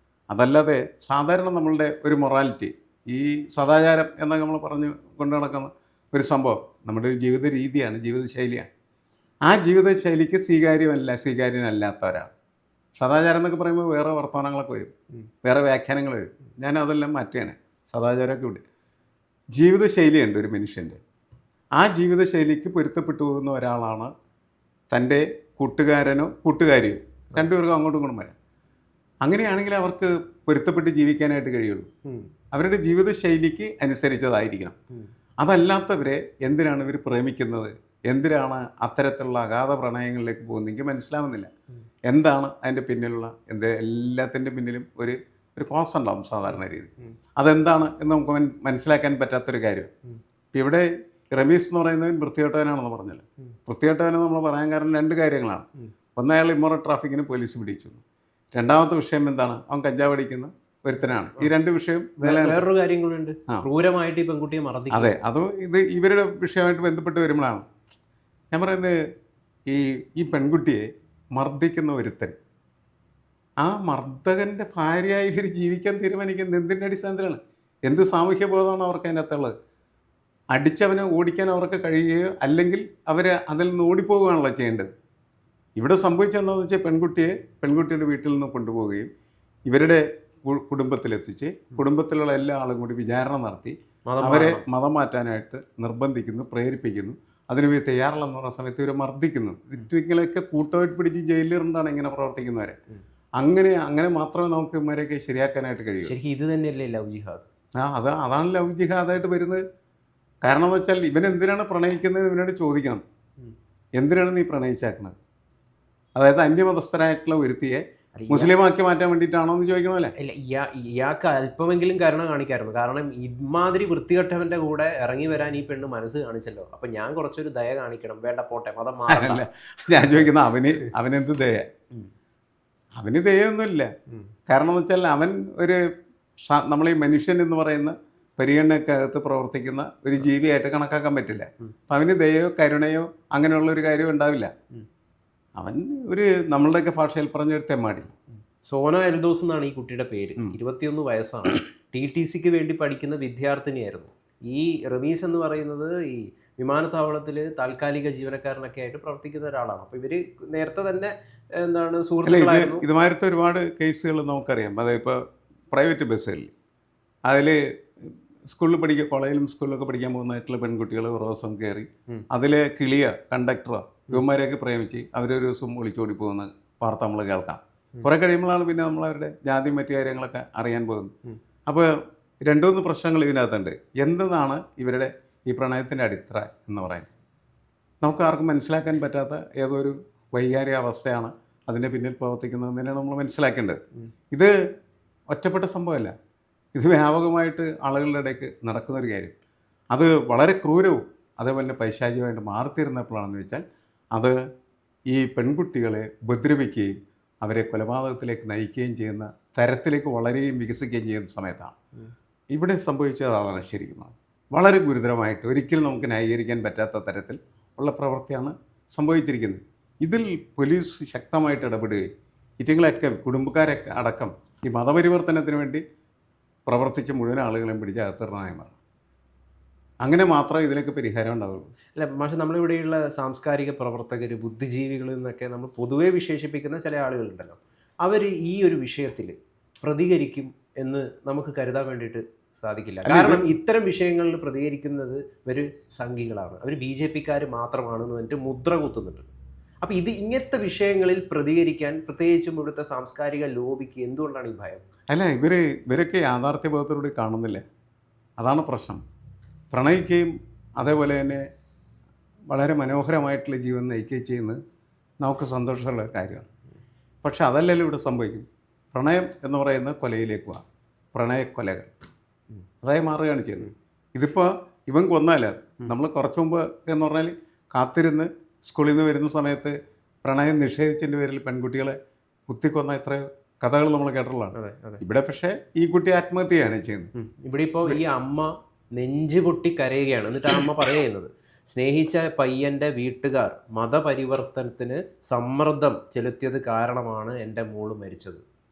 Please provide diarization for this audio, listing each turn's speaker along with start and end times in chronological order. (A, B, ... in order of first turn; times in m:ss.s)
0:00.3-0:08.7 A
0:09.4-0:12.3 A
0:13.0-0:14.9 A
0:15.4-0:18.6 A
0:19.5-0:21.0 A
0:21.8-0:24.1 A
0:24.9-0:28.3 A
0:29.2-0:31.9 A
0:32.5-0:34.7 A
0:35.4-0:41.5 A
0:42.1-0:49.9 A
0:50.5-0:58.0 A
0:58.5-1:02.6 A
1:02.2-1:05.1 B
1:04.9-1:07.7 A
1:08.5-1:09.0 A
1:09.7-1:12.3 A
1:13.6-1:19.5 A
1:20.5-1:24.9 A
1:25.8-1:29.1 A
1:29.7-1:42.8 A
1:34.1-1:34.6 B
1:43.4-1:46.1 A
1:46.0-1:47.5 B
1:47.8-1:49.6 A
1:50.4-1:53.0 A
1:54.0-1:55.1 A
1:56.2-2:00.1 A
1:58.2-1:58.5 B
2:00.2-2:10.3 B
2:09.1-2:11.7 A
2:13.0-2:13.9 A
2:14.5-2:15.8 A
2:16.4-2:24.5 A
2:25.6-2:28.1 A
2:28.6-2:42.8 B
2:42.2-2:46.5 A
2:47.2-3:01.1 A
3:01.6-3:01.9 A
3:02.4-3:07.1 A
3:08.0-3:13.8 A
3:15.3-3:16.1 A
3:16.7-3:19.3 A
3:19.9-3:23.6 A
3:25.1-3:31.8 A
3:32.5-3:42.1 A
3:42.6-3:45.8 A
3:46.6-3:48.8 A
3:50.0-3:51.7 A
3:51.9-4:09.3 B
4:03.0-4:03.4 A
4:09.8-4:14.8 B
4:15.1-4:17.6 A
4:18.4-4:19.0 A
4:19.7-4:21.5 A
4:22.5-4:24.6 A
4:25.2-4:26.5 A
4:27.2-4:30.6 A
4:31.1-4:31.9 A
4:32.8-4:42.0 A
4:42.5-4:47.1 A
4:44.5-4:45.0 B
4:47.2-4:58.4 B